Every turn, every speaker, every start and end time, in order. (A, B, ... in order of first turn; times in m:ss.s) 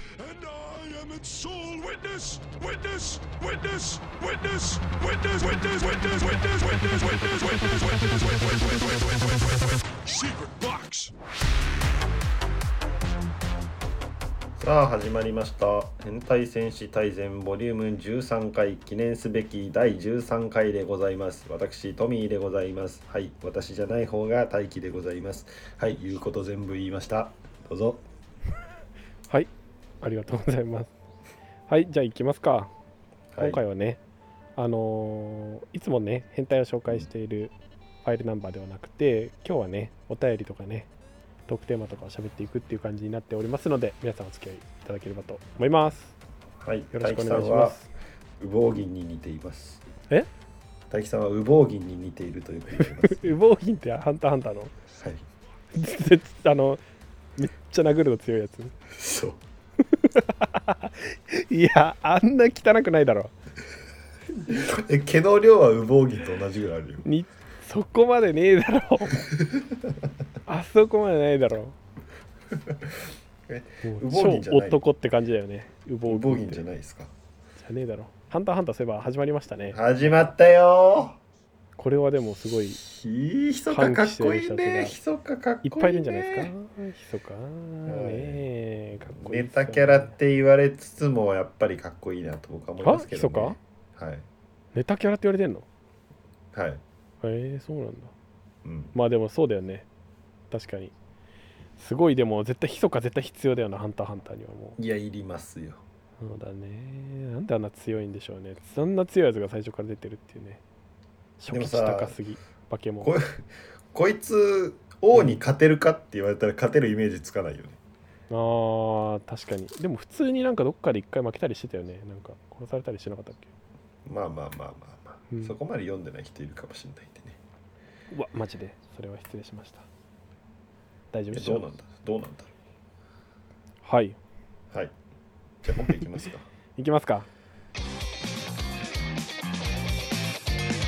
0:00.2-0:11.1 A
0:14.6-0:28.0 B
0:30.0-0:30.9 C
0:31.7-0:32.7 C
0:33.3-0:33.6 B
0:33.4-0:34.0 C
0:34.6-0:37.5 C
0:38.0-0:40.9 C
0:41.5-0:46.1 C
0:46.6-0:47.8 B
0:46.9-0:47.9 C
0:48.4-0:49.8 B
0:50.9-0:53.4 B
0:52.8-0:54.7 C
0:54.9-0:55.2 B
0:55.7-0:56.8 C
0:57.4-0:58.7 C
0:58.9-0:59.4 B
0:59.9-1:03.3 C
1:04.4-1:07.0 B
1:07.0-1:09.2 C
1:09.3-1:09.8 B
1:10.5-1:11.7 C
1:12.5-1:12.9 B
1:13.5-1:14.8 B
1:13.8-1:16.6 C
1:16.1-1:17.1 B
1:17.6-1:19.8 C
1:19.7-1:21.2 B
1:21.8-1:22.8 C
1:22.8-1:26.5 B
1:23.7-1:24.9 C
1:25.6-1:30.1 C
1:27.8-1:28.4 B
1:29.1-1:34.2 B
1:32.8-1:33.6 C
1:34.7-1:35.6 C
1:36.5-1:36.8 B
1:37.2-1:38.1 C
1:38.6-1:38.9 B
1:38.9-1:39.8 C
1:40.5-1:40.9 C
1:41.8-1:44.8 C
1:44.8-1:45.8 B
1:46.2-1:50.6 C
1:51.4-1:53.1 C
1:51.5-1:52.2 B
1:53.0-1:57.8 B
1:55.1-1:55.4 C
1:58.3-2:03.5 C
2:04.0-2:07.4 B
2:05.3-2:05.5 C
2:08.1-2:09.8 C
2:11.1-2:11.6 C
2:11.3-2:12.5 B
2:13.8-2:14.2 C
2:15.6-2:16.4 B
2:16.8-2:17.3 C